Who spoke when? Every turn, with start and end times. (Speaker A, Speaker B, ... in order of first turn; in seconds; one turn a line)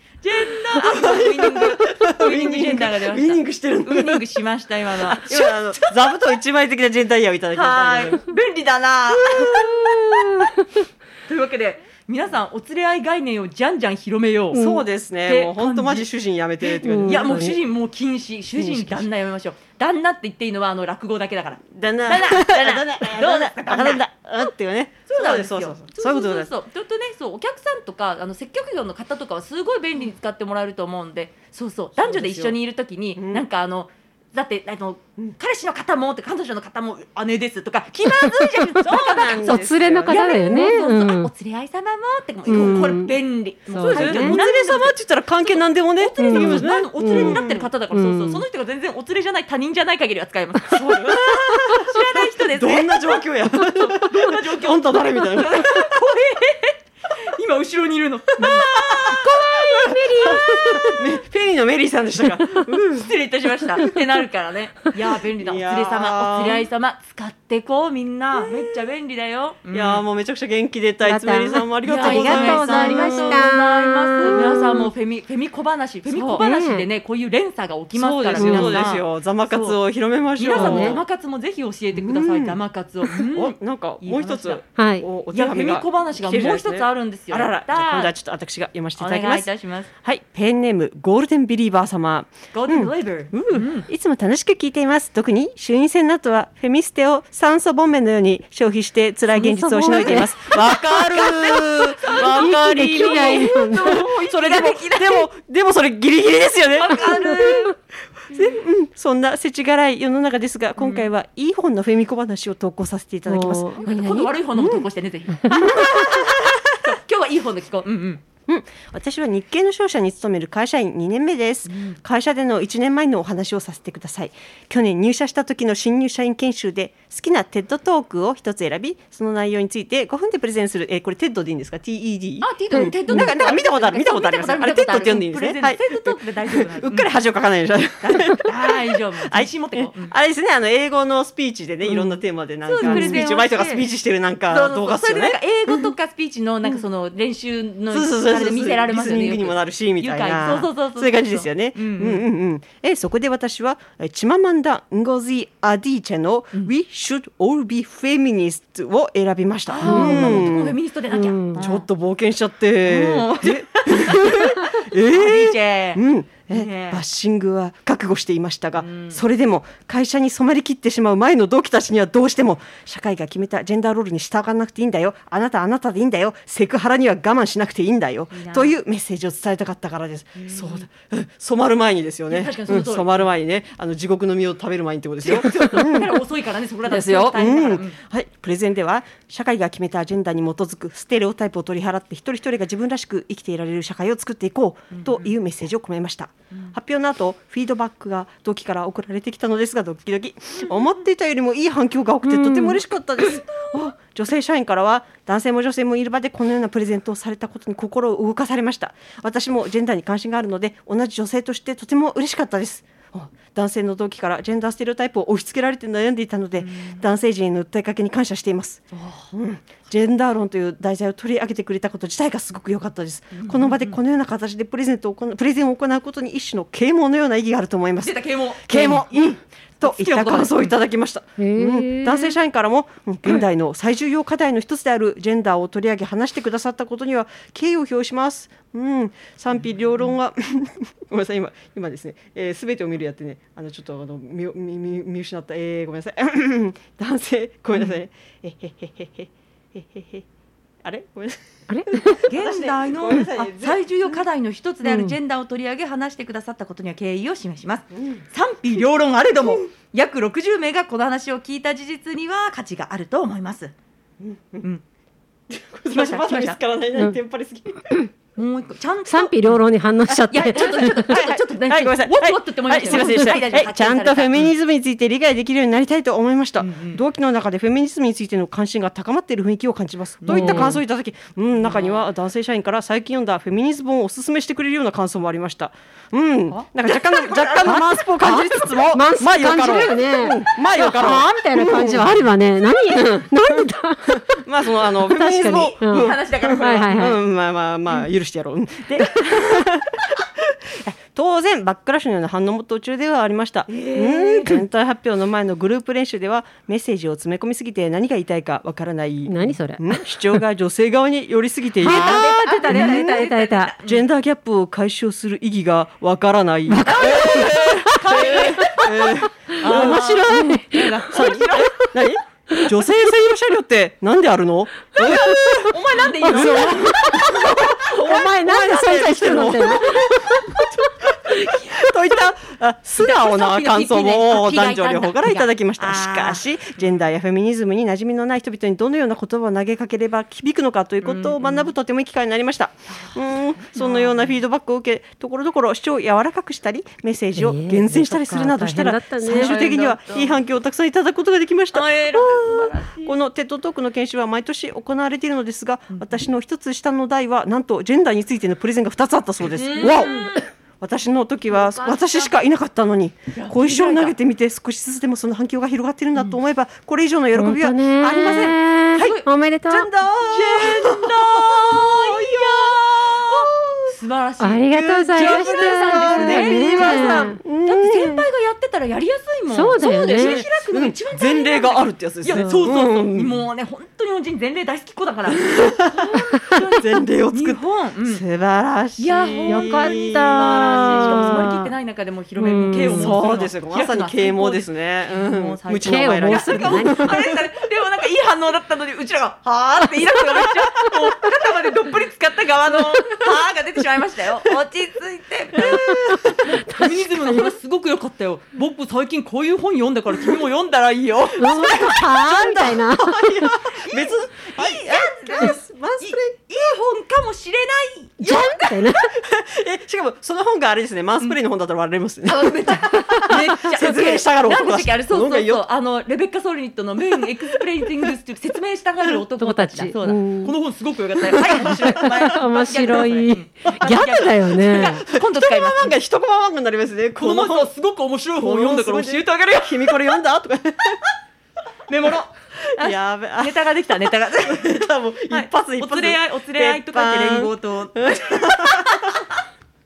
Speaker A: 0.2-6.1
Speaker B: 0.7-4.2
Speaker B: 5.1-8.2
Speaker A: 7.5-10.4
Speaker B: 9.1-10.5
Speaker A: 11.3-14.6
Speaker B: 14.5-17.5
Speaker C: 14.5-14.8
Speaker A: 15.2-16.1
Speaker C: 16.8-17.6
Speaker A: 17.0-24.5
Speaker B: 18.6-19.0
Speaker B: 21.7-26.5
Speaker A: 25.1-61.0
Speaker B: 32.0-32.5
Speaker B: 33.1-33.4
Speaker B: 38.7-40.8
Speaker C: 39.4-41.3
Speaker C: 42.5-43.1
Speaker B: 42.5-42.8
Speaker C: 43.7-44.4
Speaker B: 43.9-47.7
Speaker C: 46.2-48.4
Speaker B: 50.7-56.0
Speaker B: 58.4-63.1
Speaker C: 59.7-61.0
Speaker A: 62.9-70.0
Speaker B: 65.4-66.7
Speaker B: 69.7-73.5
Speaker C: 71.0-74.9
Speaker A: 71.8-79.8
Speaker B: 76.1-76.4
Speaker C: 76.4-76.8
Speaker B: 77.9-81.0
Speaker C: 78.3-78.9
Speaker A: 80.4-84.6
Speaker C: 80.5-81.0
Speaker B: 81.9-82.6
Speaker B: 83.2-89.5
Speaker C: 84.8-85.0
Speaker A: 85.3-88.1
Speaker A: 89.0-89.9
Speaker B: 90.0-107.7
Speaker A: 92.5-93.9
Speaker A: 99.3-105.3
Speaker C: 99.9-100.2
Speaker C: 102.2-104.0
Speaker A: 106.8-107.8
Speaker C: 107.3-107.6
Speaker B: 108.3-114.8
Speaker A: 110.8-111.1
Speaker C: 113.3-113.8
Speaker A: 113.8-118.2
Speaker B: 115.5-116.8
Speaker B: 118.5-145.9
Speaker A: 121.7-122.0
Speaker A: 132.4-137.1
Speaker A: 138.0-140.1
Speaker A: 142.7-143.9
Speaker C: 142.8-143.2
Speaker A: 144.5-152.2
Speaker B: 147.9-160.8
Speaker A: 159.7-161.9
Speaker C: 159.8-160.5
Speaker C: 161.1-161.6
Speaker B: 161.6-186.2
Speaker A: 162.8-167.0
Speaker A: 168.8-169.2
Speaker A: 178.3-178.8
Speaker A: 180.4-180.8
Speaker A: 182.3-183.2
Speaker A: 185.2-188.0
Speaker B: 186.8-250.2
Speaker A: 194.9-195.3
Speaker C: 202.2-202.8
Speaker A: 216.6-217.0
Speaker A: 218.9-219.3
Speaker A: 223.3-224.0
Speaker A: 228.0-230.7
Speaker C: 231.4-232.3
Speaker B: 250.8-254.2
Speaker C: 251.7-252.2
Speaker A: 252.2-263.7
Speaker C: 254.8-255.2
Speaker B: 258.0-258.2
Speaker B: 264.2-264.6
Speaker B: 265.5-267.9
Speaker A: 265.9-266.6
Speaker A: 268.4-269.6
Speaker C: 269.1-271.2
Speaker B: 270.1-292.2
Speaker A: 270.3-274.5
Speaker C: 272.9-273.4
Speaker A: 276.6-277.0
Speaker A: 280.2-280.8
Speaker C: 280.3-280.8
Speaker A: 281.6-282.0
Speaker A: 286.5-288.1
Speaker C: 287.7-294.4
Speaker B: 292.9-293.3
Speaker B: 294.1-313.3
Speaker C: 295.0-297.2
Speaker A: 295.4-297.1
Speaker A: 303.7-304.6
Speaker C: 309.3-310.0
Speaker C: 311.8-313.7
Speaker A: 311.8-314.0
Speaker B: 313.9-369.1
Speaker C: 316.7-318.1
Speaker A: 316.8-321.8
Speaker C: 319.6-321.0
Speaker A: 325.0-328.2
Speaker C: 326.3-326.9
Speaker C: 327.9-330.1
Speaker A: 331.4-331.8
Speaker A: 333.0-337.0
Speaker A: 341.0-341.7
Speaker A: 342.9-344.3
Speaker C: 347.4-349.6
Speaker A: 349.3-350.3
Speaker A: 351.7-353.1
Speaker A: 355.9-356.2
Speaker A: 359.5-360.5
Speaker A: 361.5-362.3
Speaker A: 363.3-364.1
Speaker C: 367.3-369.9
Speaker A: 368.9-369.3
Speaker B: 369.7-373.9
Speaker A: 370.2-388.2
Speaker C: 374.4-377.4
Speaker B: 375.1-378.2
Speaker C: 379.5-380.4
Speaker B: 380.0-383.4
Speaker B: 385.4-386.1
Speaker B: 386.7-391.5
Speaker A: 389.0-412.0
Speaker C: 389.5-391.7
Speaker C: 392.4-393.2
Speaker B: 392.7-397.4
Speaker C: 395.8-397.3
Speaker B: 405.6-406.4
Speaker C: 405.6-407.5
Speaker C: 411.4-413.5
Speaker B: 411.5-416.5
Speaker A: 413.7-418.9
Speaker C: 418.2-419.1
Speaker B: 419.0-425.6
Speaker A: 422.2-436.0
Speaker C: 429.4-430.5
Speaker B: 431.4-432.3
Speaker C: 431.5-435.0
Speaker B: 433.7-437.7
Speaker A: 437.2-439.9
Speaker B: 438.4-441.1
Speaker A: 441.9-449.2
Speaker B: 442.7-443.7
Speaker B: 444.4-449.3